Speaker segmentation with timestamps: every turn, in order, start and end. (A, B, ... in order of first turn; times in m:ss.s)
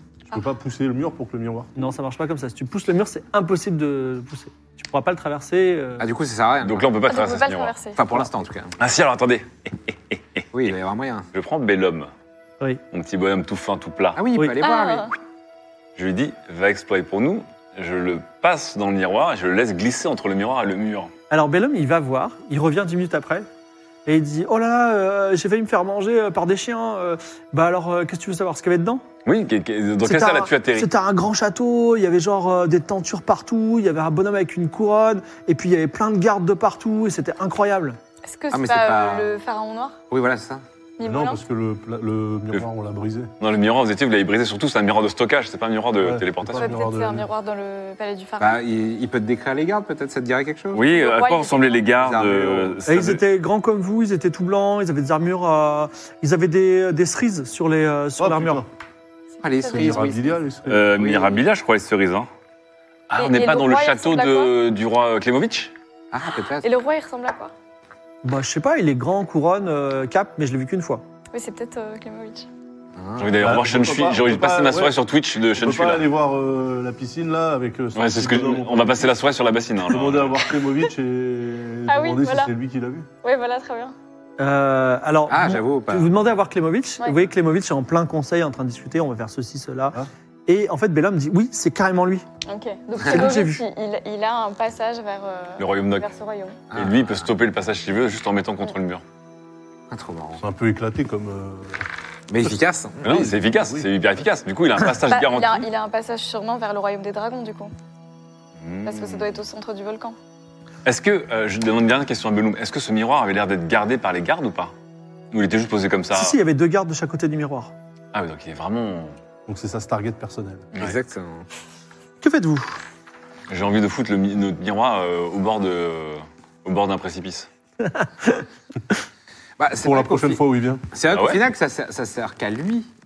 0:00.3-0:01.8 A
0:01.8-0:06.1 B
0:06.0-0:06.9 C
0:06.6-0:07.8 D
0:07.0-0:08.0 E
0:08.0-0:08.7 C
0:08.8-0:10.7 D
0:10.5-0:11.3 C
0:11.3-0:12.1 D
0:12.9-0:14.2 D
0:14.2-0:15.1 C
0:14.6-0:15.1 E
0:16.0-0:21.1 D
0:21.3-0:23.5 B
0:24.0-0:29.0 B
0:29.2-0:30.9 D
0:30.0-0:38.0 B
0:38.2-0:40.0 E
0:38.5-0:39.3 C
0:40.1-0:40.6 C
0:41.0-0:41.4 E
0:41.0-0:43.3 A
0:43.4-0:46.7 D
0:46.0-0:47.3 A
0:46.6-0:48.6 E
0:48.4-0:50.8 C
0:50.7-0:53.2 D
0:50.9-0:51.8 E
0:51.9-0:52.7 C
0:52.9-0:58.6 B
0:58.2-0:58.7 A
0:59.4-1:00.1 E
0:59.4-1:01.4 C
0:59.7-1:00.9 A
1:00.6-1:02.3 D
1:03.1-1:05.7 D
1:03.2-1:04.5 E
1:06.1-1:06.7 C
1:06.6-1:07.5 E
1:08.2-1:11.0 B
1:11.3-1:12.5 E
1:13.0-1:13.5 C
1:13.2-1:16.1 D
1:13.4-1:15.0 A
1:15.5-1:19.1 A
1:17.9-1:20.4 D
1:19.9-1:23.1 A
1:21.9-1:22.5 E
1:23.2-1:23.9 E
1:24.4-1:32.2 B
1:25.3-1:26.1 C
1:32.4-1:36.6 E
1:33.0-1:33.6 B
1:35.6-1:36.1 D
1:36.7-1:37.3 C
1:36.7-1:39.0 D
1:39.9-1:40.4 C
1:40.4-1:41.8 A
1:42.3-1:43.0 C
1:42.4-1:43.9 A
1:43.0-1:45.7 D
1:45.1-1:47.7 E
1:48.6-1:49.4 D
1:48.8-1:50.2 E
1:50.8-1:54.7 D
1:55.3-1:56.4 D
1:56.1-1:57.7 B
1:58.1-1:59.2 D
1:59.5-2:00.7 A
2:00.7-2:01.5 C
2:02.2-2:02.8 B
2:03.5-2:07.5 D
2:07.8-2:08.4 B
2:09.6-2:10.4 C
2:09.8-2:10.8 A
2:10.9-2:12.9 C
2:11.1-2:11.4 D